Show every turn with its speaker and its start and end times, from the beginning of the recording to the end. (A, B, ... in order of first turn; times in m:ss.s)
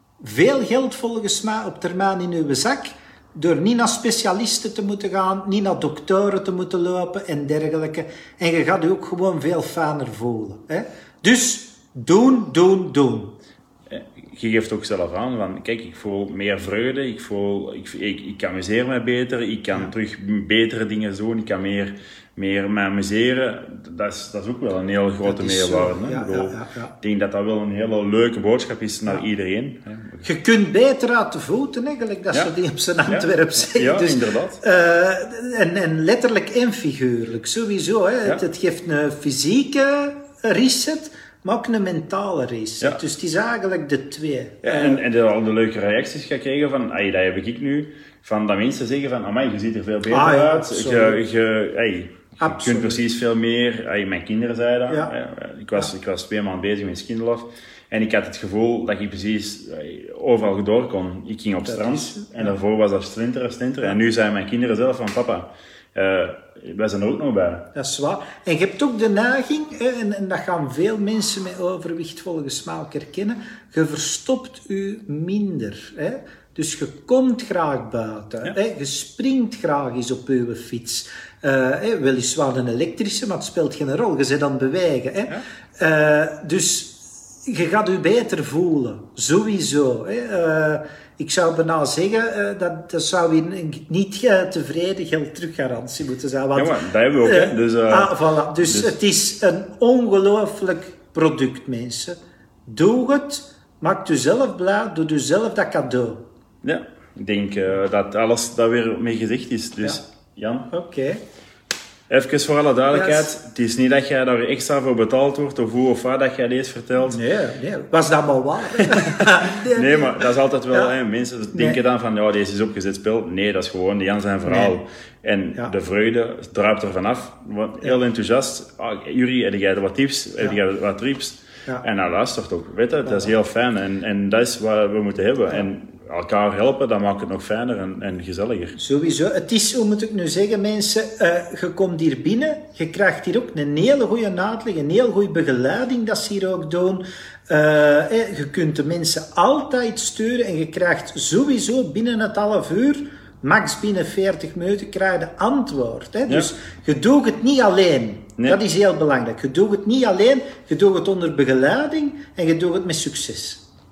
0:00.2-0:13.4 A
0:13.9-0:30.3 B
0:25.2-0:26.9 A
0:30.2-0:45.0 A
0:33.1-0:34.6 B
0:44.6-1:07.7 B
0:50.1-0:51.2 A
0:52.4-0:53.0 A
0:54.9-0:55.1 A
1:01.7-1:02.5 A
1:07.8-1:46.2 A
1:36.6-1:39.0 B
1:46.6-1:50.7 B
1:50.7-1:51.2 A
1:52.1-1:57.2 B
1:52.9-1:53.3 A
1:57.0-2:00.9 A
1:58.8-2:18.8 B
2:01.5-2:01.8 A
2:04.5-2:04.8 A
2:13.1-2:13.4 A
2:18.8-2:43.6 A